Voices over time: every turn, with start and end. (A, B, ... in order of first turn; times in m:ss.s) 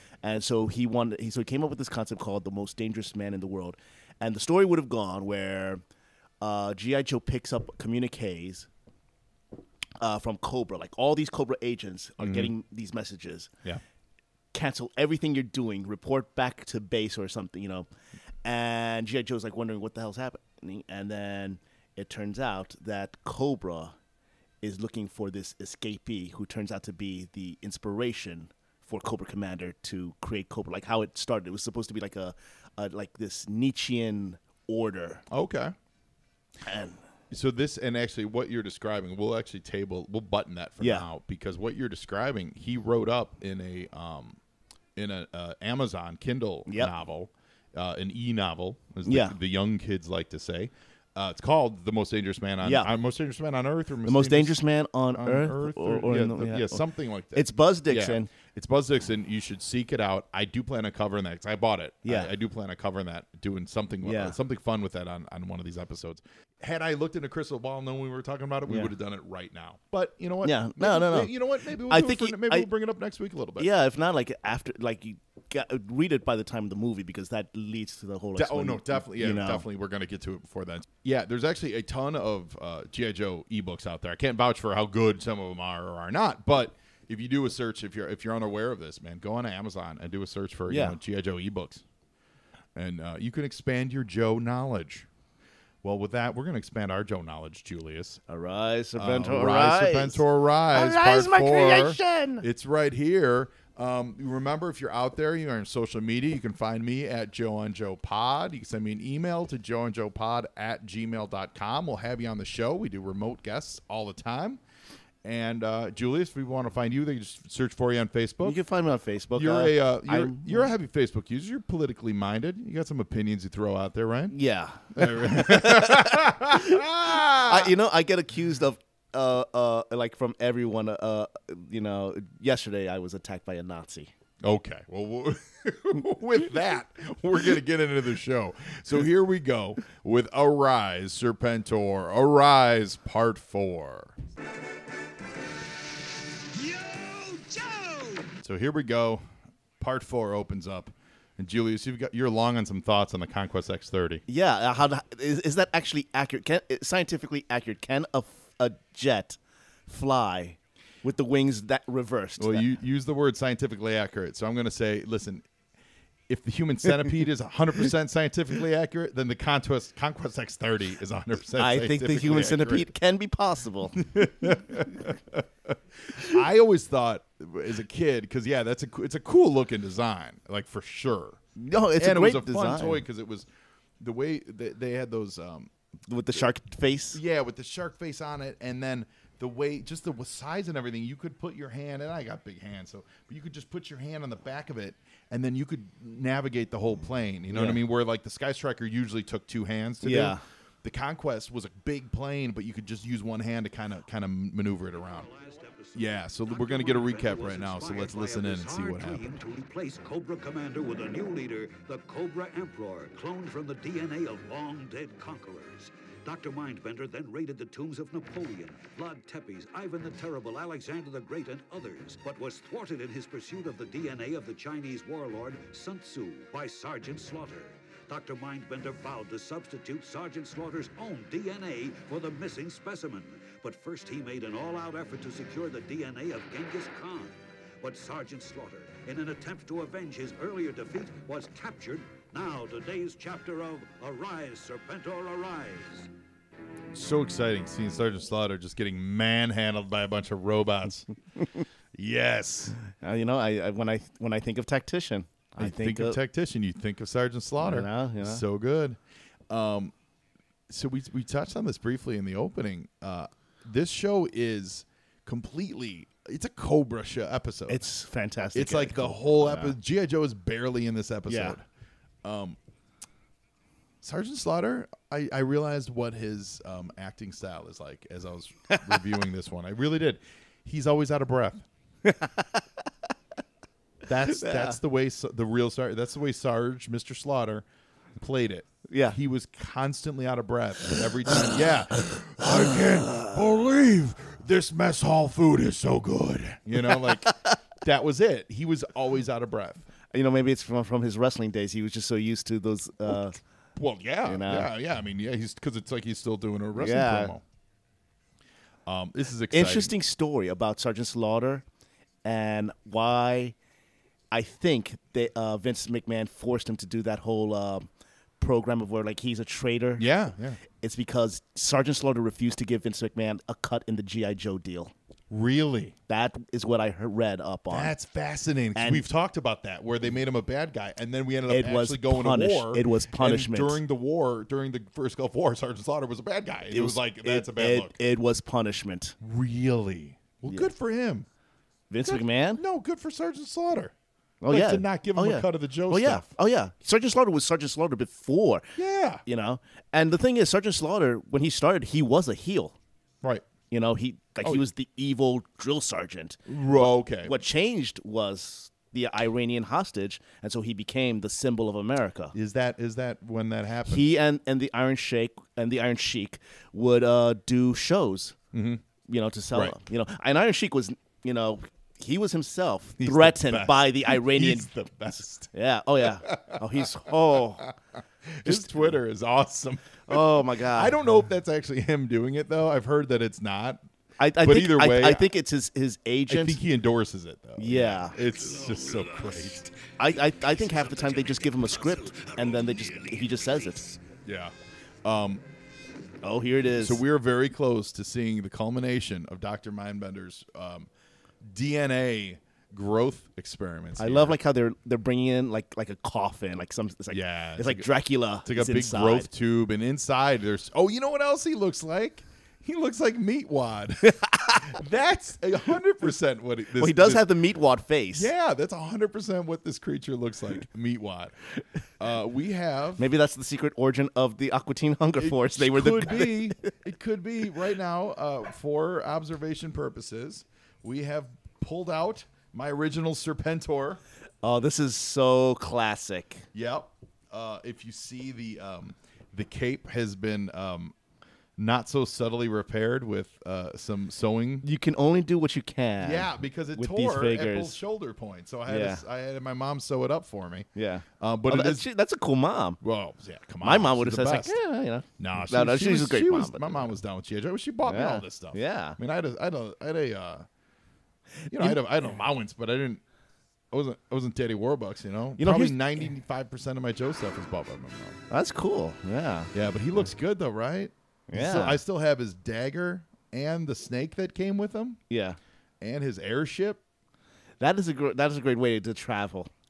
0:00.2-0:05.8 A
0:06.4-0:08.7 A
0:10.0-0:13.5 A
0:12.2-0:12.5 B
0:14.5-0:17.9 A
0:18.4-0:24.0 A
0:24.6-0:35.2 A
0:35.3-0:35.7 B
0:36.6-0:37.0 A
0:37.3-0:44.4 B
0:40.8-0:41.1 A
0:45.0-0:54.6 B
0:46.7-0:46.9 A
0:49.0-0:49.4 A
0:52.6-0:52.9 A
0:54.0-0:56.8 A
0:55.1-1:13.7 B
0:57.3-0:58.3 A
1:02.0-1:02.3 A
1:04.0-1:04.3 A
1:08.7-1:08.9 A
1:10.4-1:11.3 A
1:11.9-1:12.7 A
1:13.6-1:19.6 A
1:18.3-1:31.8 B
1:30.7-1:31.0 A
1:32.7-1:35.1 B
1:35.8-1:38.2 B
1:38.3-1:42.4 A
1:39.0-1:54.6 B
1:55.2-1:58.6 B
1:58.4-2:00.7 A
1:59.3-2:04.3 B
2:04.3-2:14.1 A
2:04.9-2:07.7 B
2:14.4-2:24.1 B
2:27.3-2:27.6 A
2:28.4-2:29.2 B
2:29.8-2:34.2 B
2:34.3-2:42.7 A
2:42.4-2:45.5 B
2:46.3-2:52.9 B
2:51.6-2:54.8 A
2:54.0-3:01.4 B
3:01.6-3:03.0 A
3:02.0-3:03.5 B
3:04.0-3:05.7 B
3:06.1-3:07.2 A
3:07.1-3:25.3 B
3:17.5-3:17.8 A
3:20.0-3:20.4 A
3:25.0-4:06.1 C
3:25.9-3:29.4 B
4:06.9-4:11.1 B
4:11.9-4:12.8 B
4:12.9-4:16.2 A
4:15.6-4:19.0 B
4:17.6-4:18.4 A
4:19.5-4:19.9 B
4:20.7-4:27.8 B
4:27.7-4:29.8 A
4:28.5-4:31.6 B
4:31.3-4:31.6 A
4:32.2-4:32.6 B
4:34.0-4:41.7 B
4:42.0-4:42.6 A
4:44.0-4:59.8 B
4:44.3-4:44.8 A
4:48.9-4:49.2 A
4:56.8-4:57.6 A
5:00.1-5:03.4 A
5:03.8-5:07.4 B
5:04.2-5:04.7 A
5:06.8-5:07.3 A
5:08.8-5:09.9 B
5:09.5-5:11.6 A
5:12.2-5:13.6 A
5:14.3-5:17.9 A
5:18.4-5:20.0 A
5:20.0-5:20.6 B
5:20.8-5:24.9 A
5:25.3-5:26.0 B
5:26.1-5:27.9 A
5:27.7-5:38.0 B
5:28.7-5:29.0 A
5:31.5-5:33.8 A
5:36.7-5:39.1 A
5:39.2-5:41.3 B
5:41.9-5:42.6 A
5:42.0-5:43.9 B
5:44.4-5:48.7 A
5:44.5-5:46.3 B
5:48.8-5:49.2 B
5:49.2-5:52.8 A
5:53.7-6:02.3 A
5:56.5-5:57.4 B
6:02.3-6:04.0 B
6:03.9-6:08.4 A
6:08.5-6:08.8 B
6:09.1-6:14.7 A
6:13.0-6:17.7 B
6:15.5-6:17.7 A
6:18.3-6:23.8 B
6:18.4-6:18.9 A
6:20.1-6:20.9 A
6:24.2-6:26.6 A
6:24.4-6:25.3 B
6:26.3-6:29.7 B
6:27.6-6:28.2 A
6:30.0-6:34.0 A
6:34.2-6:35.4 B
6:36.2-6:37.0 A
6:36.8-6:40.9 B
6:41.4-6:44.4 B
6:44.0-6:49.3 A
6:47.1-6:47.9 B
6:48.4-6:57.3 B
6:54.2-6:54.6 A
6:56.8-6:58.3 A
6:58.1-7:01.5 B
7:02.0-7:03.0 B
7:03.0-7:06.7 A
7:05.2-7:14.0 B
7:14.4-7:16.4 A
7:16.5-7:20.9 B
7:21.6-7:24.6 B
7:24.6-7:27.8 A
7:26.0-7:30.7 B
7:28.7-7:29.0 A
7:30.7-7:32.8 A
7:31.2-7:31.8 B
7:32.8-7:34.6 B
7:33.6-7:36.9 A
7:35.2-7:40.5 B
7:37.8-7:39.0 A
7:41.4-7:42.1 A
7:41.5-7:43.0 B
7:43.7-7:48.2 B
7:45.4-7:46.1 A
7:48.3-7:49.5 A
7:49.5-7:55.0 B
7:51.3-7:51.8 A
7:55.1-7:55.4 A
7:55.8-7:56.8 B
7:57.6-7:59.5 A